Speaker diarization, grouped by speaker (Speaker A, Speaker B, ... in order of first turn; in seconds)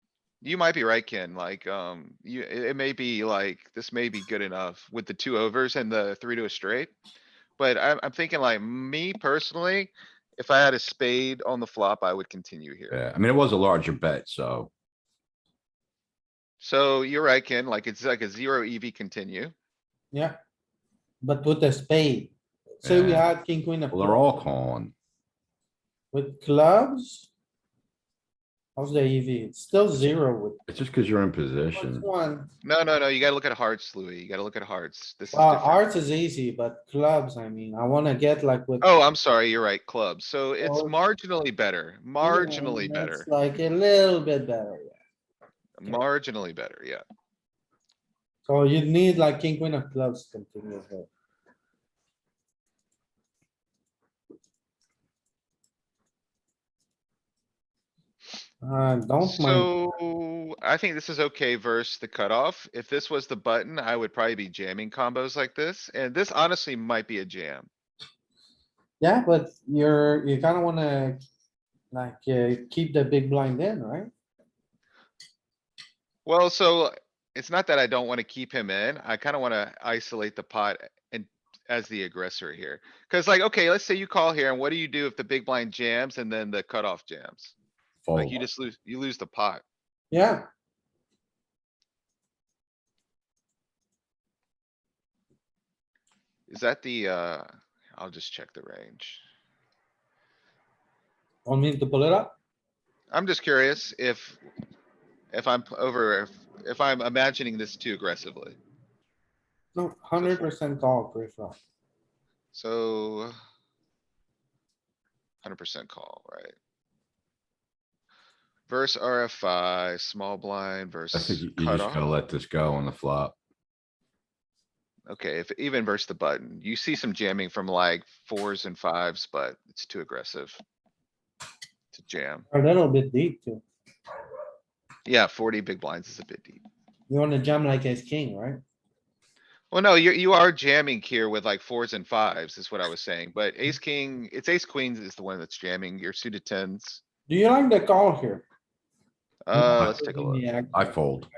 Speaker A: 0.4-6.9, 7.6-13.0, 16.6-19.5, 32.6-35.8, 38.8-43.3, 45.8-47.0, 59.2-67.7, 76.3-87.5, 88.2-89.6, 96.5-99.2, 103.1-104.4, 105.3-108.6, 110.2-110.5, 112.5-113.3, 115.4-116.5, 118.7-122.0, 125.1-130.6, 131.9-132.5, 135.1-136.6, 139.7-147.0, 149.5-150.4
Speaker B: 12.9-14.7, 22.8-23.3, 23.9-24.9, 30.7-32.0, 88.0-88.4, 121.1-123.3, 150.7-151.3
Speaker C: 21.2-24.3, 26.1-27.3, 28.8-30.6, 31.8-32.5, 35.3-38.9, 40.6-40.9, 42.2-45.0, 48.5-51.1, 58.6-59.7, 69.0-71.2, 71.9-74.1, 90.1-90.5, 101.5-102.3, 109.8-111.6, 132.5-133.6, 137.1-138.6, 147.3-148.4, 149.5-150.9